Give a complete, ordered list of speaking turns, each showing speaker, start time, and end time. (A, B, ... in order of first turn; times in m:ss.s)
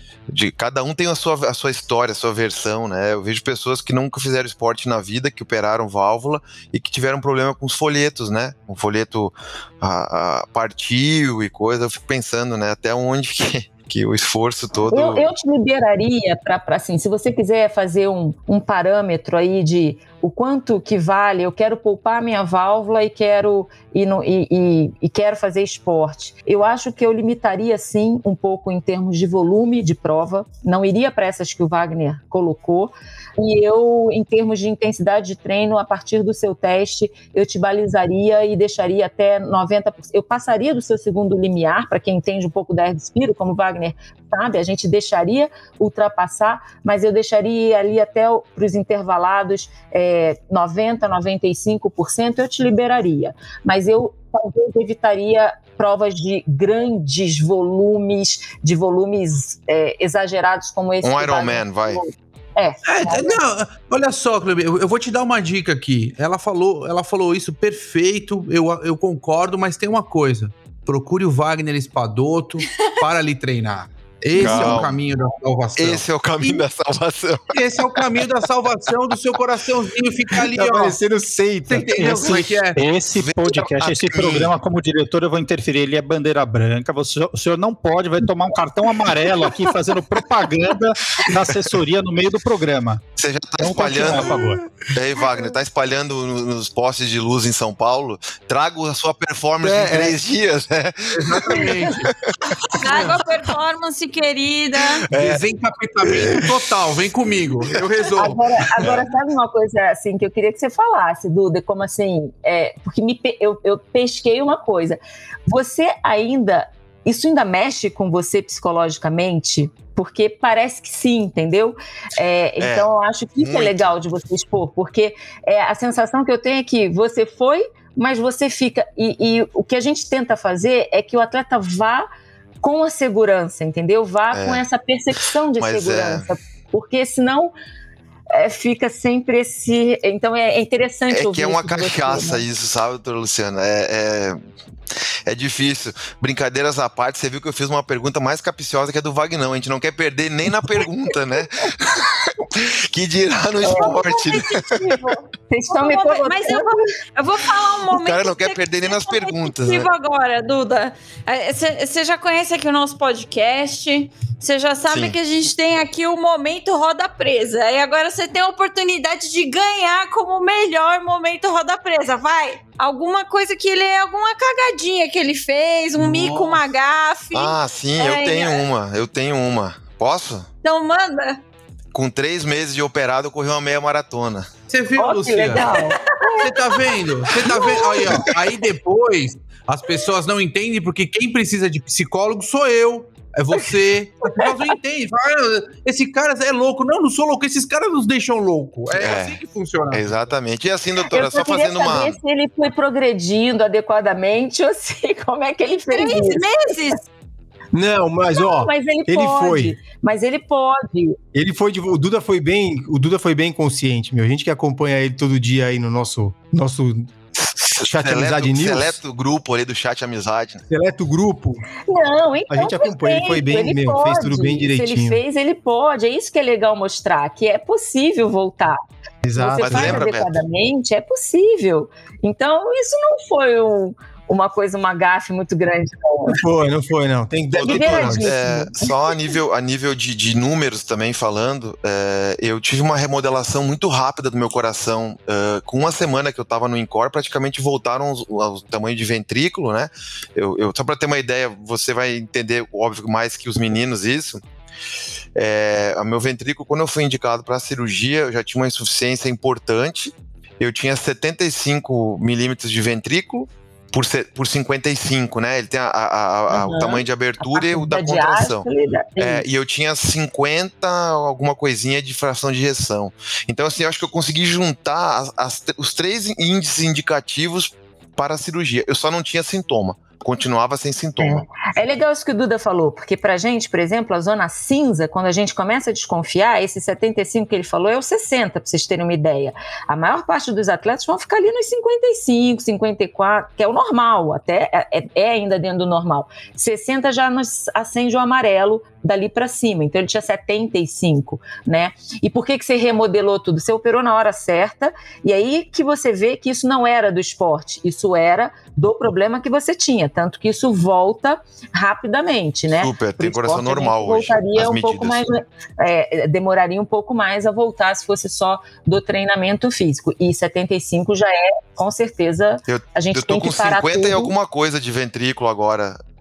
0:00.3-0:15.2 A
0:14.9-1:03.4 B
1:01.0-1:02.0 A
1:02.8-1:16.6 C
1:14.3-1:15.0 A
1:15.8-1:18.2 A
1:17.5-1:21.0 C
1:20.5-1:22.6 D
1:21.6-1:22.8 C
1:22.8-1:33.0 E
1:23.1-1:24.5 A
1:33.2-1:42.3 A
1:33.6-1:34.8 E
1:39.6-1:40.2 D
1:41.2-1:42.1 C
1:42.8-1:45.1 F
1:45.1-1:45.4 A
1:45.1-1:48.9 C
1:46.0-1:46.5 A
1:48.2-2:12.0 B
2:02.6-2:03.8 A
2:12.6-2:17.5 B
2:14.3-2:14.6 A
2:15.6-2:16.2 A
2:18.3-2:22.4 B
2:21.1-2:24.4 A
2:25.2-2:34.8 A
2:33.6-2:34.4 B
2:33.7-2:35.2 F
2:35.4-2:36.8 B
2:35.7-2:58.6 F
2:37.9-2:39.9 A
2:44.9-2:45.2 A
2:56.0-2:56.6 C
2:57.3-3:00.5 A
3:00.6-3:01.4 F
3:01.9-3:04.5 A
3:04.7-3:05.7 C
3:05.0-3:06.4 B
3:06.4-3:20.2 C
3:18.9-3:19.4 A
3:19.9-3:22.1 A
3:21.0-3:26.5 B
3:25.9-3:27.0 F
3:27.7-3:29.8 D
3:28.4-3:31.2 B
3:31.3-3:37.1 D
3:37.4-3:40.6 A
3:37.8-3:39.0 D
3:40.7-3:41.6 D
3:41.9-3:48.8 B
3:42.5-3:45.2 D
3:49.2-3:50.0 D
3:49.4-3:56.4 B
3:49.6-3:50.4 A
3:56.2-3:58.3 D
3:57.5-3:59.2 B
3:57.6-4:14.4 A
4:15.4-4:28.7 A
4:26.5-4:29.4 B
4:29.2-4:41.5 A
4:41.2-5:24.3 B
5:12.7-5:15.3 A
5:22.6-5:26.0 A